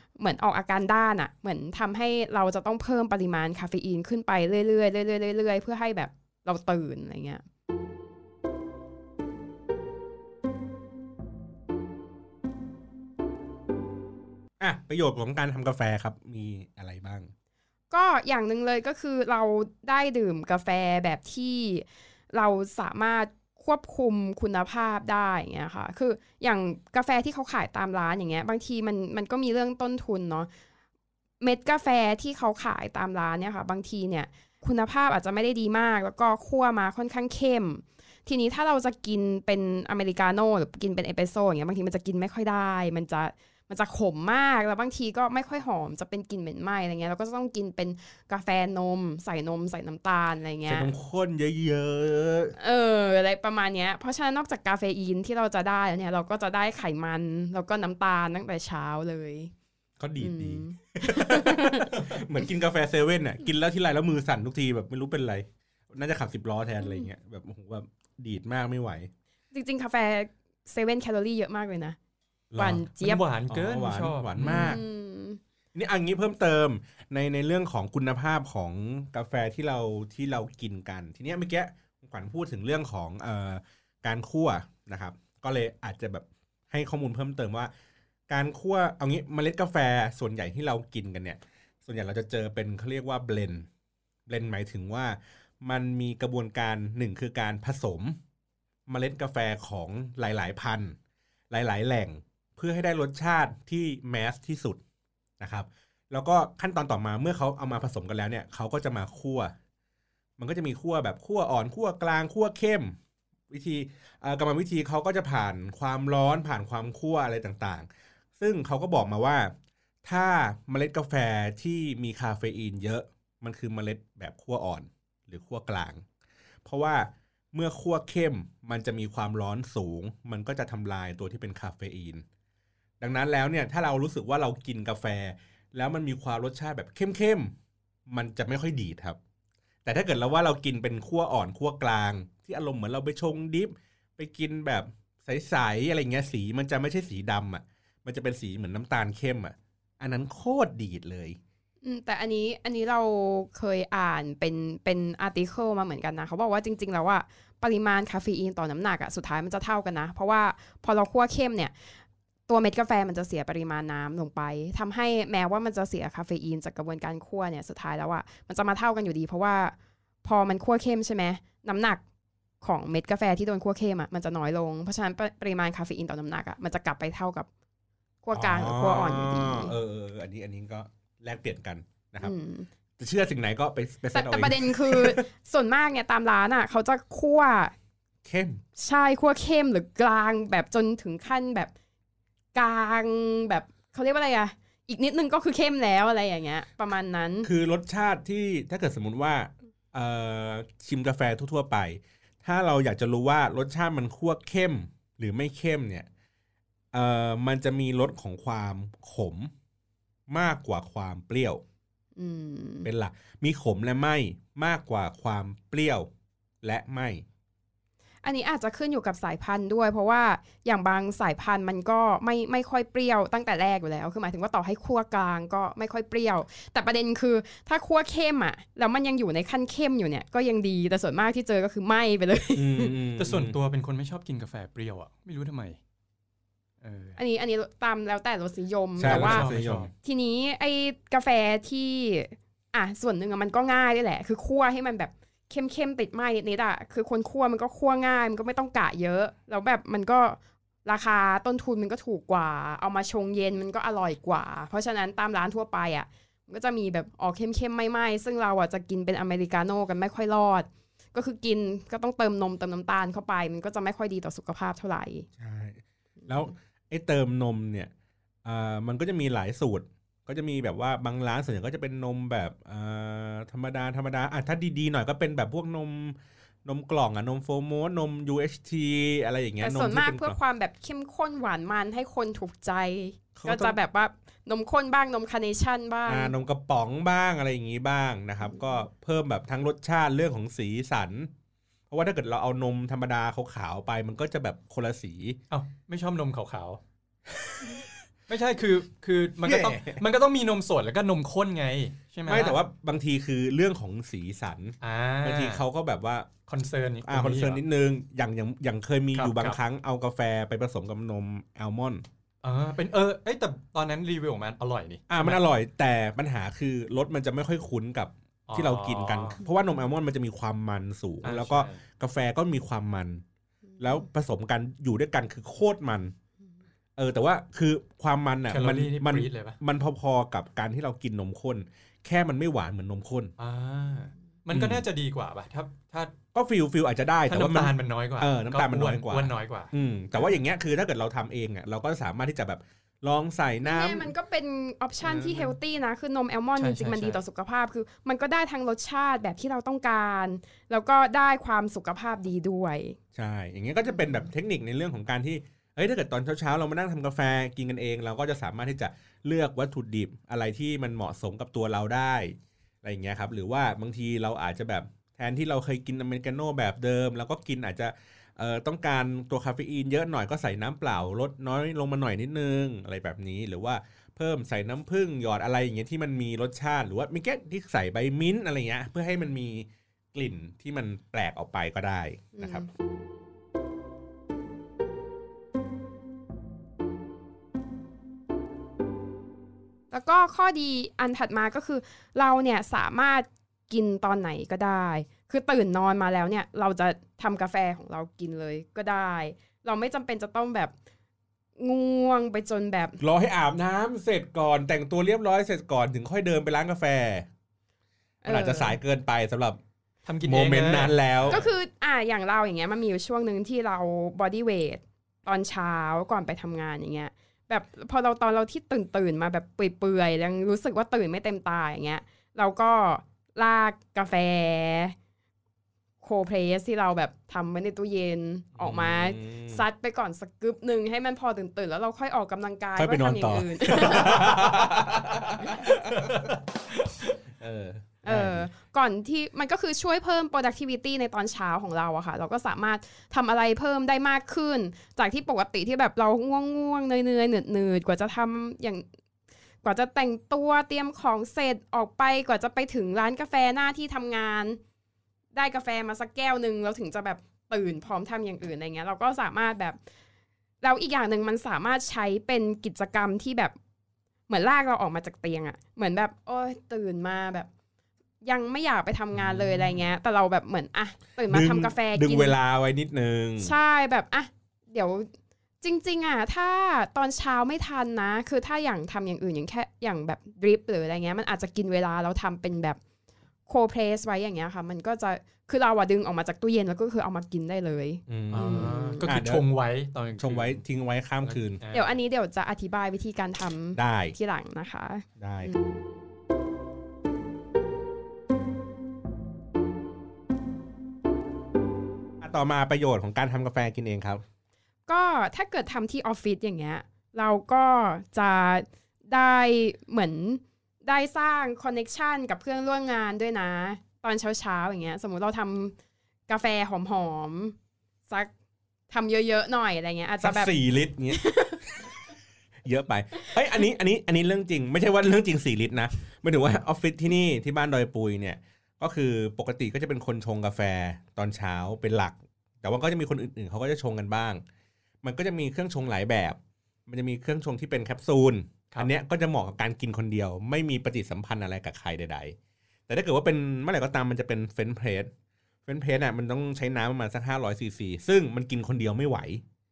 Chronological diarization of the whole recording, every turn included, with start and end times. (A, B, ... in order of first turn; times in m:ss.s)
0:00.2-0:07.4 A
0:14.6-0:17.3 B
0:17.9-0:30.5 A
0:31.4-0:50.9 A
0:50.6-0:52.5 B
0:52.6-0:59.5 A
1:00.0-1:09.1 B
1:00.2-1:01.9 A
1:06.8-1:07.1 A
1:09.5-1:12.0 A
1:12.5-1:12.8 B
1:12.6-1:13.2 A
1:12.9-1:14.7 C
1:13.5-1:14.8 B
1:14.4-1:15.4 A
1:15.7-1:27.7 B
1:28.3-1:33.7 B
1:34.3-1:38.2 B
1:38.9-1:41.0 B
1:41.5-1:44.8 B
1:45.4-1:49.5 B
1:50.4-1:53.0 B
1:53.5-1:57.9 B
1:58.4-1:59.5 B
2:00.0-2:06.0 B
2:06.6-2:12.2 B
2:13.0-2:17.5 B
2:18.1-2:19.2 B
2:19.8-2:31.4 B
2:31.8-2:41.7 A
2:42.5-2:52.0 A
2:52.6-2:57.5 A
2:58.2-2:59.7 A
2:58.3-3:02.3 B
3:02.2-3:02.7 A
3:03.0-3:05.2 B
3:04.1-3:07.7 A
3:08.2-3:08.6 B
3:08.8-3:11.7 A
3:12.5-3:17.5 A
3:17.4-3:26.1 B
3:26.9-3:29.5 B
3:30.3-3:31.6 B
3:32.2-3:32.9 A
3:32.8-3:36.1 B
3:36.6-3:37.2 B
3:38.2-3:52.9 A
3:52.5-3:53.6 B
3:53.2-3:55.8 C
3:56.8-3:57.2 C
3:57.2-3:59.5 A
3:59.0-3:59.9 B
3:59.0-3:59.9 C
4:00.0-4:25.3 A
4:25.4-4:27.9 B
4:28.4-4:40.4 B
4:39.6-4:46.3 A
4:43.3-4:43.8 B
4:46.1-4:51.3 B
4:51.9-4:55.4 B
4:55.5-4:56.8 C
4:58.3-5:02.6 C
4:59.4-5:00.0 B
5:02.3-5:06.3 B
5:04.8-5:05.6 C
5:06.5-5:07.6 C
5:07.0-5:12.0 B
5:09.1-5:09.6 C
5:12.4-5:15.4 C
5:15.1-5:23.2 B
5:18.5-5:19.4 C
5:21.2-5:21.8 C
5:23.8-5:26.1 B
5:27.0-5:33.3 B
5:28.5-5:29.6 C
5:33.4-5:36.1 C
5:34.5-5:34.8 B
5:36.3-5:44.1 B
5:37.3-5:39.7 C
5:43.6-5:53.0 A
5:45.0-5:45.5 B
5:46.6-5:47.2 C
5:53.1-6:22.6 B
6:22.3-6:22.7 A
6:29.9-6:40.7 A
6:41.6-6:43.0 A
6:43.0-6:47.3 B
6:48.2-6:48.8 A
6:48.2-6:49.6 B
6:50.0-6:51.5 C
6:50.2-6:51.4 B
6:51.3-7:04.9 A
7:06.0-7:14.7 A
7:08.6-7:09.6 B
7:12.8-7:16.3 B
7:15.6-7:17.1 C
7:17.4-7:18.5 B
7:18.0-7:28.8 A
7:29.6-7:34.6 A
7:35.3-7:39.8 A
7:40.6-7:43.6 A
7:44.3-7:47.5 A
7:48.2-7:52.4 A
7:51.3-7:53.5 B
7:53.4-7:55.1 A
7:55.6-8:02.8 A
8:03.4-8:09.0 A
8:08.1-8:09.4 B
8:08.3-8:10.6 C
8:10.2-8:11.6 B
8:11.3-8:11.9 C
8:11.7-8:15.6 A
8:13.7-8:14.1 B
8:15.2-8:15.5 B
8:22.2-8:24.2 B
8:24.9-8:35.7 A
8:36.3-8:37.6 A
8:38.1-8:38.3 A
8:38.9-8:40.6 A
8:40.2-8:41.2 B
8:41.1-8:41.6 A
8:42.6-8:54.4 B
8:55.0-9:02.4 B
9:02.9-9:05.1 B
9:05.6-9:09.4 B